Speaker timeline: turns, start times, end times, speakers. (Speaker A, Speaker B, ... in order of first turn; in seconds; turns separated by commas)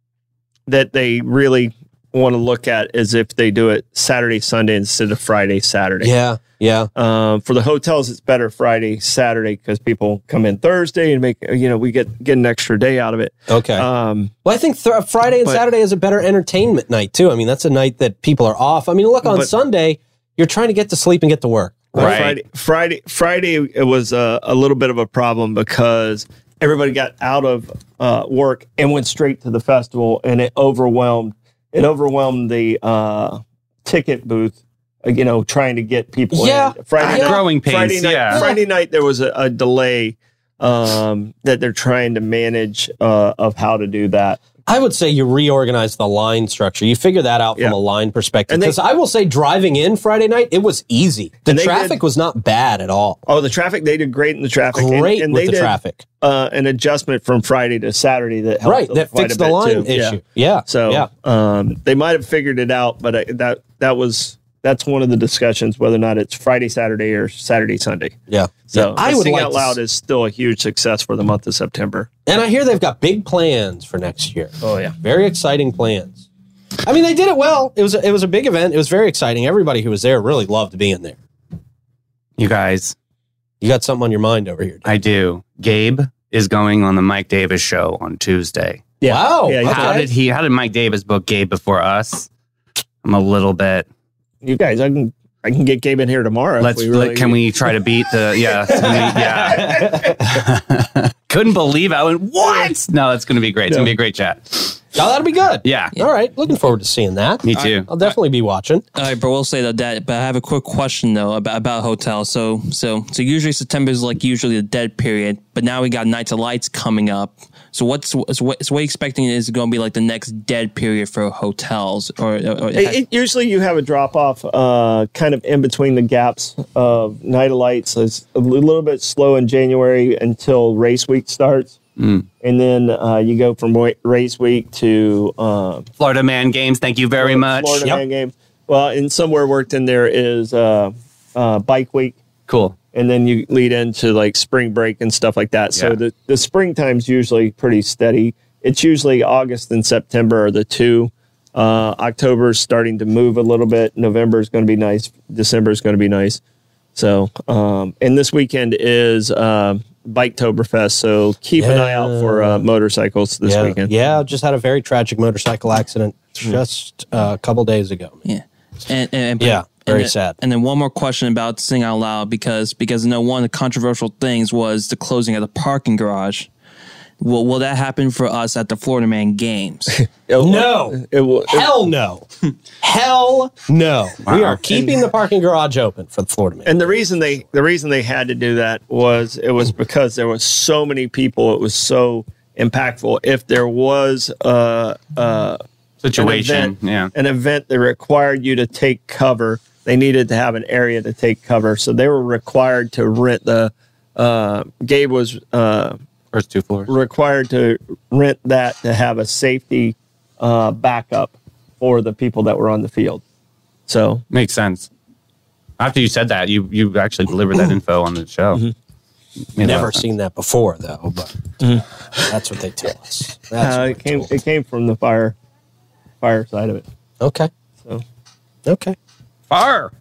Speaker A: 0.7-6.1, Speaker B: 6.0-6.9, Speaker A: 6.9-14.3, Speaker B: 13.5-13.8, Speaker B: 14.4-22.2, Speaker A: 19.2-19.5, Speaker A: 21.9-44.4, Speaker C: 21.9-22.4, Speaker B: 36.3-37.4, Speaker C: 37.0-38.4, Speaker B: 38.3-38.6, Speaker B: 44.7-53.2, Speaker A: 48.5-48.8, Speaker A: 51.5-52.0, Speaker A: 53.2-68.2, Speaker B: 54.7-56.0, Speaker B: 58.6-61.1, Speaker B: 68.3-69.8, Speaker A: 68.7-72.1, Speaker B: 72.3-76.2, Speaker A: 74.6-74.9, Speaker B: 76.8-81.2, Speaker C: 82.4-82.9, Speaker B: 83.6-84.9, Speaker C: 84.8-88.9, Speaker A: 89.0-90.1, Speaker B: 89.0-90.0, Speaker C: 89.6-92.3, Speaker C: 93.0-93.9, Speaker A: 94.4-97.4, Speaker C: 96.6-104.8, Speaker B: 98.7-100.4, Speaker A: 102.4-102.7, Speaker B: 104.9-108.8, Speaker C: 105.6-105.9, Speaker C: 107.4-107.9, Speaker D: 107.5-108.1, Speaker D: 108.9-123.0, Speaker A: 122.7-131.8, Speaker C: 132.0-132.3, Speaker A: 132.4-135.8, Speaker C: 136.0-137.9, Speaker A: 137.2-142.2, Speaker C: 142.5-142.8, Speaker A: 142.9-156.4, Speaker A: 156.9-163.9, Speaker B: 161.6-162.7, Speaker B: 163.4-168.2, Speaker D: 168.2-176.5, Speaker B: 169.4-170.3, Speaker D: 177.2-180.0, Speaker A: 180.0-181.8, Speaker B: 180.4-182.3, Speaker B: 182.8-187.3, Speaker C: 184.2-184.6, Speaker A: 186.7-195.6, Speaker C: 196.0-197.1, Speaker A: 196.2-206.0, Speaker C: 206.3-206.9, Speaker A: 206.9-213.2, Speaker A: 213.9-214.2, Speaker C: 214.3-214.9, Speaker C: 215.8-218.6, Speaker C: 219.6-220.0, Speaker B: 219.6-221.3, Speaker B: 222.3-224.3, Speaker A: 223.6-225.3, Speaker A: 226.2-226.8, Speaker B: 227.2-227.5, Speaker B: 228.7-228.9, Speaker C: 229.5-229.9